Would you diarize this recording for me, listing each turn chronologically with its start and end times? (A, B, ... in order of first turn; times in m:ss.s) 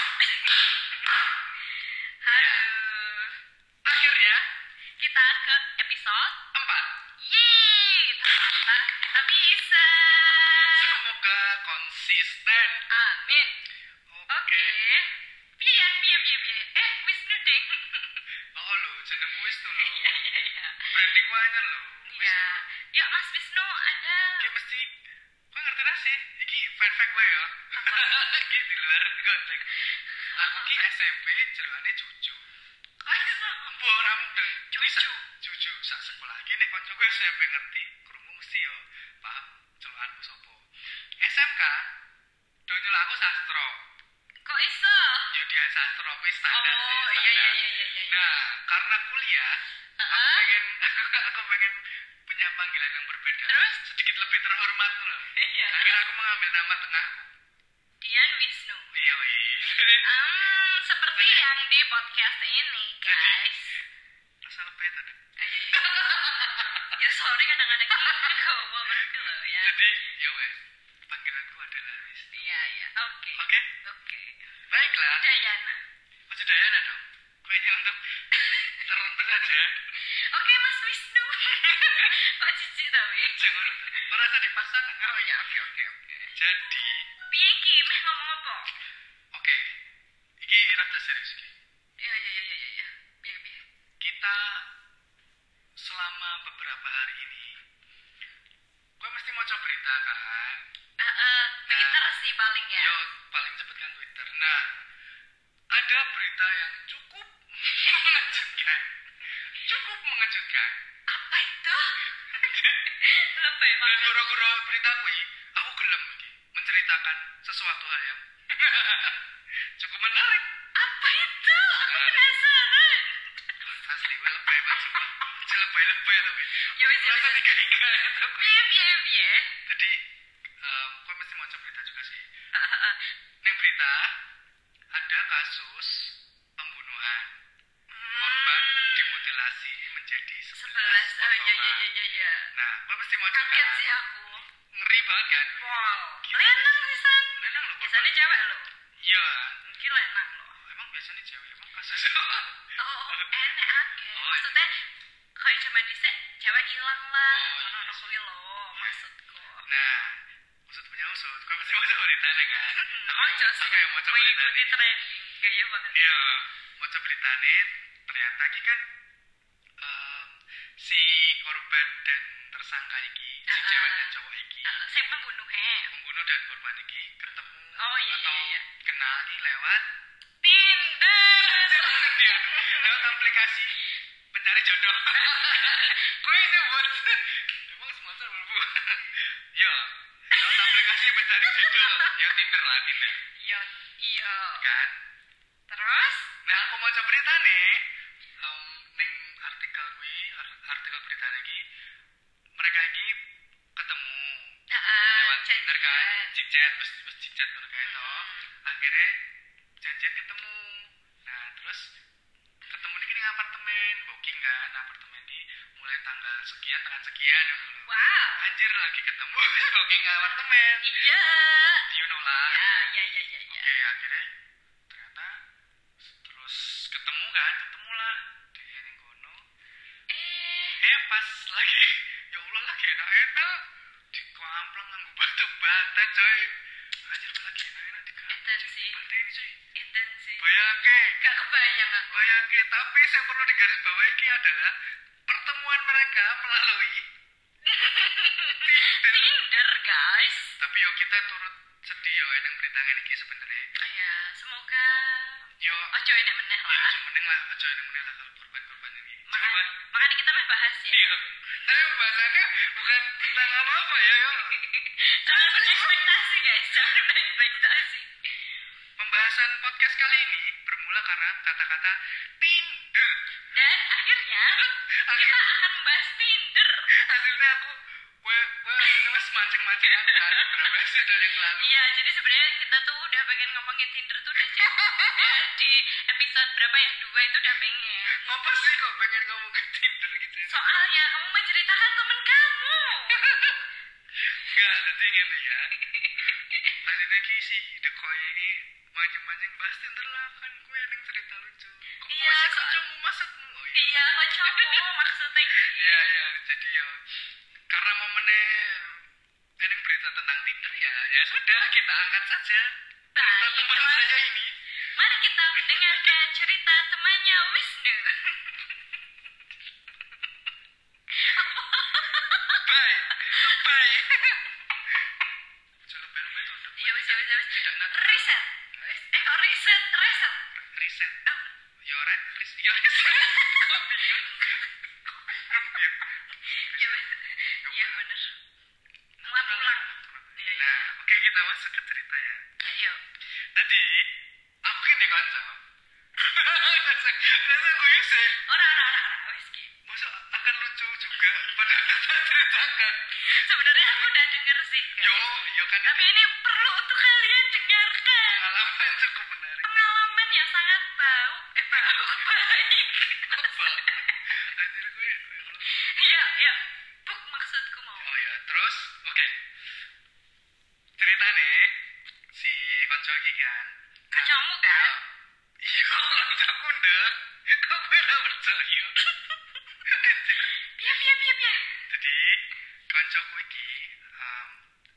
0:00.2-0:03.4 A
0:02.3-0:02.7 B
0:03.8-0:04.4 B
0:05.0-0:06.4 A
0:06.5-0:06.9 B
0:07.2-0:11.0 A
0:10.2-0:12.8 B
0:12.9-0:13.5 A
0:14.1-0:14.8 B
0:14.3-0:18.2 A
0:18.6-0:20.1 B
0:19.8-0:21.0 A
0:20.9-0:22.6 B
0:22.1-0:24.5 A
0:24.4-0:25.0 B
0:25.5-0:29.7 B
0:27.7-0:28.3 A
0:29.7-0:30.9 A
0:30.3-0:32.5 B
0:33.0-0:33.8 A
0:33.7-0:40.6 B
0:34.7-0:35.3 A
0:41.2-0:41.8 B
0:42.7-0:43.8 B
0:44.4-0:45.3 A
0:45.3-0:49.6 B
0:46.5-0:48.3 A
0:50.0-0:50.5 A
0:50.1-0:57.3 B
0:53.5-0:53.8 A
0:55.3-0:56.0 A
0:58.0-0:58.9 A
0:58.9-1:00.0 B
1:00.0-1:03.8 A
1:01.2-1:01.4 B
1:03.0-1:03.6 B
1:04.4-1:05.2 B
1:05.4-1:09.8 A
1:05.7-1:06.9 B
1:07.9-1:12.5 B
1:12.3-1:14.4 A
1:13.4-1:13.7 B
1:14.7-1:15.3 B
1:15.2-1:15.8 A
1:16.3-1:18.1 B
1:18.3-1:18.9 A
1:18.8-1:19.8 B
1:19.9-1:24.1 A
1:21.6-1:22.2 B
1:23.3-1:25.2 B
1:25.0-1:26.3 A
1:26.4-1:27.1 B
1:27.3-1:28.7 A
1:29.3-1:29.7 B
1:30.4-1:31.6 B
1:32.0-1:33.6 A
1:34.0-1:34.6 B
1:35.8-1:37.6 B
1:39.0-1:40.6 B
1:41.0-1:43.0 A
1:41.7-1:42.1 B
1:42.8-1:44.8 B
1:45.7-1:48.9 B
1:47.8-1:48.7 A
1:49.4-1:50.7 B
1:51.1-1:54.3 A
1:52.2-1:52.9 B
1:53.8-1:59.2 B
1:59.8-2:00.6 B
2:00.8-2:03.6 A
2:01.8-2:02.3 B
2:03.6-2:08.6 B
2:04.4-2:05.0 A
2:06.7-2:07.5 A
2:08.4-2:09.5 A
2:09.7-2:10.0 B
2:10.6-2:12.3 B
2:12.5-2:13.1 A
2:13.4-2:14.1 B
2:14.9-2:17.3 B
2:17.9-2:19.4 A
2:18.2-2:21.9 B
2:20.5-2:22.5 A
2:22.5-2:23.8 B
2:23.3-2:24.5 A
2:24.7-2:25.7 B
2:25.6-2:28.7 A
2:26.2-2:26.8 B
2:27.4-2:28.3 B
2:29.0-2:29.6 B
2:29.6-2:30.6 A
2:30.6-2:33.3 B
2:32.8-2:34.8 A
2:34.1-2:34.5 B
2:35.4-2:39.7 A
2:37.3-2:38.1 B
2:39.7-2:44.8 B
2:42.6-2:46.2 A
2:45.9-2:48.8 B
2:49.8-2:54.7 B
2:53.5-2:54.1 A
2:54.6-2:55.9 A
2:55.9-2:59.8 B
2:57.8-2:58.6 A
3:00.4-3:03.6 A
3:01.4-3:03.8 B
3:04.3-3:13.2 B
3:05.1-3:06.1 A
3:10.3-3:12.2 A
3:13.4-3:14.7 A
3:14.6-3:15.0 B
3:15.7-3:16.3 A
3:16.4-3:17.8 B
3:18.4-3:21.6 B
3:22.6-3:23.2 B
3:23.8-3:24.5 B
3:24.7-3:26.4 A
3:25.2-3:29.1 B
3:27.8-3:28.5 A
3:29.8-3:31.8 B
3:32.7-3:41.0 B
3:37.9-3:38.5 A
3:40.2-3:41.9 A
3:41.9-3:42.6 B
3:42.4-3:43.7 A
3:43.5-3:44.3 B
3:44.9-3:45.4 B
3:46.0-3:49.5 B
3:50.1-3:50.8 A
3:50.8-3:56.5 B
3:57.0-3:59.6 B
3:58.3-3:59.0 A
3:59.8-4:00.5 A
4:00.4-4:01.2 B
4:01.2-4:02.3 A
4:02.1-4:04.7 B
4:05.3-4:07.0 B
4:07.6-4:10.6 A
4:07.8-4:09.4 B
4:10.6-4:13.7 B
4:13.8-4:17.0 A
4:15.6-4:15.9 B
4:16.7-4:19.7 B
4:19.3-4:21.0 A
4:20.9-4:24.6 B
4:23.2-4:23.5 A
4:24.3-4:28.2 A
4:25.3-4:26.1 B
4:29.0-4:33.2 B
4:33.5-4:36.9 A
4:34.6-4:35.5 B
4:36.9-4:41.8 B
4:38.8-4:40.8 A
4:41.6-4:48.3 A
4:44.4-4:45.4 B
4:48.2-4:50.6 B
4:50.5-4:53.4 A
4:53.1-4:53.6 B
4:54.3-4:54.8 A
4:54.4-4:55.7 B
4:55.8-4:56.8 A
4:56.8-5:04.9 B
5:02.1-5:02.8 A
5:03.7-5:06.0 A
5:05.5-5:07.0 B
5:07.7-5:09.0 B
5:09.6-5:14.6 B
5:13.2-5:14.2 A
5:14.8-5:19.0 A
5:15.5-5:16.2 B
5:21.1-5:24.5 A
5:22.6-5:24.4 B
5:25.9-5:28.9 B
5:26.8-5:30.4 A
5:30.5-5:31.3 B
5:31.3-5:31.5 A
5:31.8-5:37.0 B
5:33.0-5:34.7 A
5:35.3-5:35.8 A
5:36.4-5:38.3 A
5:37.6-5:38.0 B
5:39.2-5:42.4 B
5:39.2-5:40.9 A
5:42.6-5:43.0 A
5:43.6-5:44.1 B
5:44.6-5:45.6 B
5:46.2-5:48.4 B
5:48.3-5:49.7 A
5:49.8-5:54.1 B
5:51.3-5:52.0 A
5:53.2-5:55.2 A
5:55.0-5:56.2 B
5:55.8-5:58.5 A
5:58.2-5:59.7 B
5:59.6-6:04.4 A
6:01.7-6:02.5 B
6:03.2-6:05.7 B
6:05.6-6:08.1 A
6:08.0-6:09.3 B
6:11.0-6:11.8 B
6:12.3-6:15.1 B
6:14.1-6:15.0 A
6:15.6-6:19.0 B
6:19.0-6:19.8 A
6:19.9-6:20.6 B
6:20.6-6:21.8 A
6:21.9-6:24.6 B